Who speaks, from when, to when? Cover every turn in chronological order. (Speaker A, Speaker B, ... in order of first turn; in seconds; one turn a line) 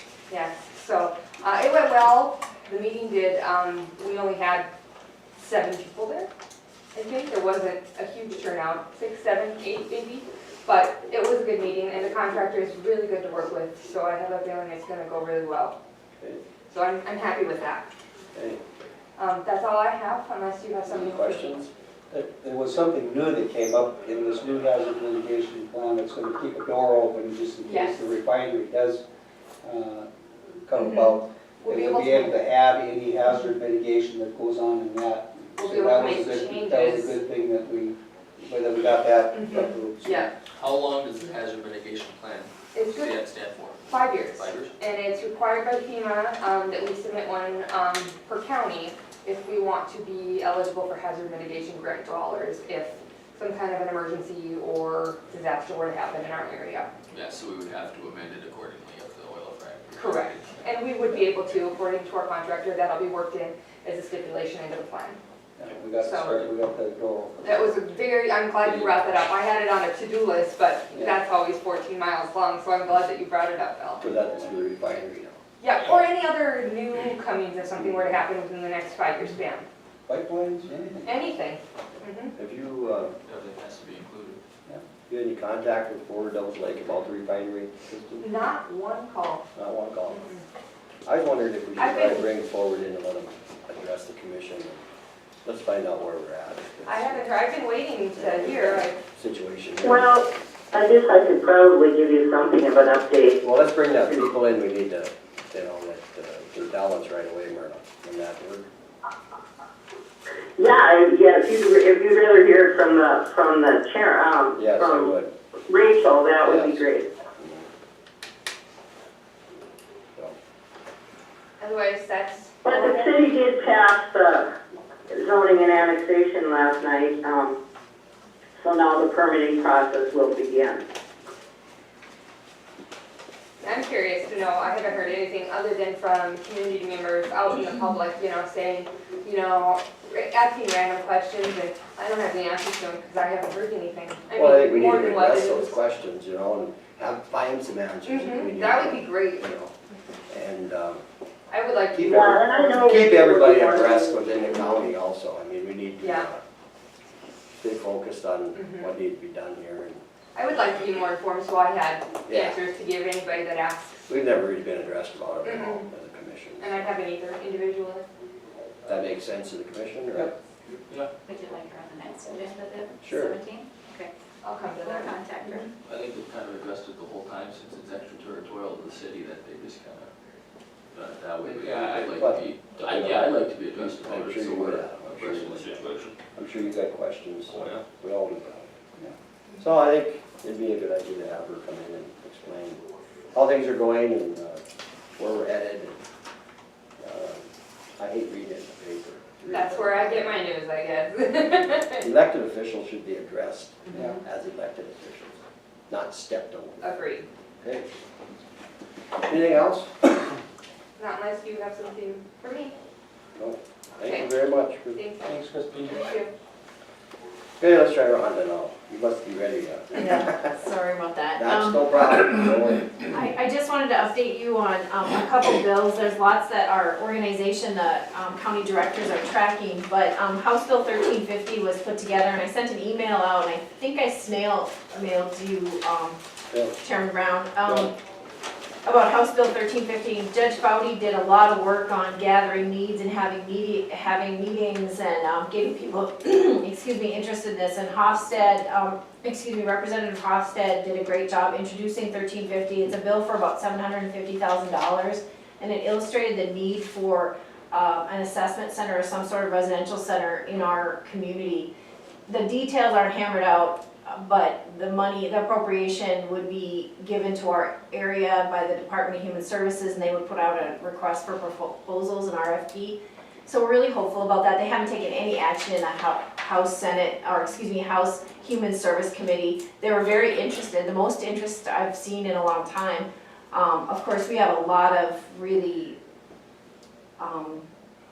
Speaker A: 0.3-4.7
Speaker A: 5.4-6.3
Speaker A: 6.9-15.8
Speaker A: 16.7-17.9
Speaker B: 18.3-18.6
Speaker A: 19.2-21.6
Speaker B: 20.9-21.7
Speaker C: 22.1-29.0
Speaker A: 27.6-28.0
Speaker C: 29.6-30.1
Speaker C: 30.7-40.3
Speaker A: 30.8-32.4
Speaker A: 35.6-37.2
Speaker A: 39.3-40.3
Speaker D: 40.5-44.8
Speaker A: 42.7-43.2
Speaker A: 43.9-56.9
Speaker D: 57.1-60.6
Speaker A: 59.9-65.2
Speaker C: 65.6-67.5
Speaker A: 66.0-66.5
Speaker A: 67.4-74.0
Speaker C: 68.6-69.0
Speaker C: 70.9-71.2
Speaker B: 74.0-75.4
Speaker A: 75.6-79.7
Speaker B: 77.8-78.1
Speaker C: 80.1-81.2
Speaker A: 81.0-82.3
Speaker B: 82.4-83.2
Speaker D: 83.2-84.4
Speaker B: 85.1-88.2
Speaker A: 88.2-89.5
Speaker B: 89.5-90.3
Speaker A: 90.1-90.4
Speaker B: 91.1-94.8
Speaker A: 91.8-92.3
Speaker B: 95.4-97.3
Speaker A: 96.9-99.0
Speaker B: 98.1-100.1
Speaker E: 99.8-103.4
Speaker B: 103.4-108.7
Speaker E: 110.6-115.1
Speaker B: 114.6-115.3
Speaker E: 115.7-117.1
Speaker B: 116.4-116.8
Speaker B: 117.4-117.7
Speaker A: 121.6-123.1
Speaker E: 122.6-124.5
Speaker E: 125.1-127.6
Speaker E: 128.6-130.8
Speaker A: 133.6-145.8
Speaker B: 144.3-149.7
Speaker A: 148.1-149.4
Speaker B: 150.3-151.0
Speaker A: 151.5-152.4
Speaker B: 151.9-156.4
Speaker E: 152.1-154.4
Speaker A: 156.0-156.3
Speaker B: 157.6-160.0
Speaker A: 158.6-158.9
Speaker A: 160.3-164.0
Speaker B: 162.3-162.6
Speaker B: 164.1-166.8
Speaker A: 165.4-165.9
Speaker A: 166.6-168.1
Speaker B: 168.9-170.3
Speaker F: 171.3-174.1
Speaker B: 173.0-173.4
Speaker A: 174.4-175.7
Speaker F: 174.8-175.7
Speaker D: 175.8-180.1
Speaker D: 180.9-186.2
Speaker B: 181.5-188.7
Speaker D: 187.5-187.8
Speaker B: 189.6-192.8
Speaker B: 193.3-194.6
Speaker B: 195.2-196.0
Speaker B: 197.0-200.4
Speaker A: 199.5-202.1
Speaker B: 202.0-206.8
Speaker C: 203.9-204.2
Speaker A: 206.8-207.3
Speaker B: 207.6-207.9
Speaker B: 209.2-209.9
Speaker A: 211.0-212.8
Speaker B: 213.3-215.0
Speaker A: 214.9-216.3
Speaker D: 215.3-216.0
Speaker B: 217.6-220.6
Speaker G: 220.0-236.2
Speaker B: 221.4-223.1
Speaker G: 236.8-237.9
Speaker G: 238.8-261.7
Speaker G: 262.3-286.0
Speaker G: 287.2-287.7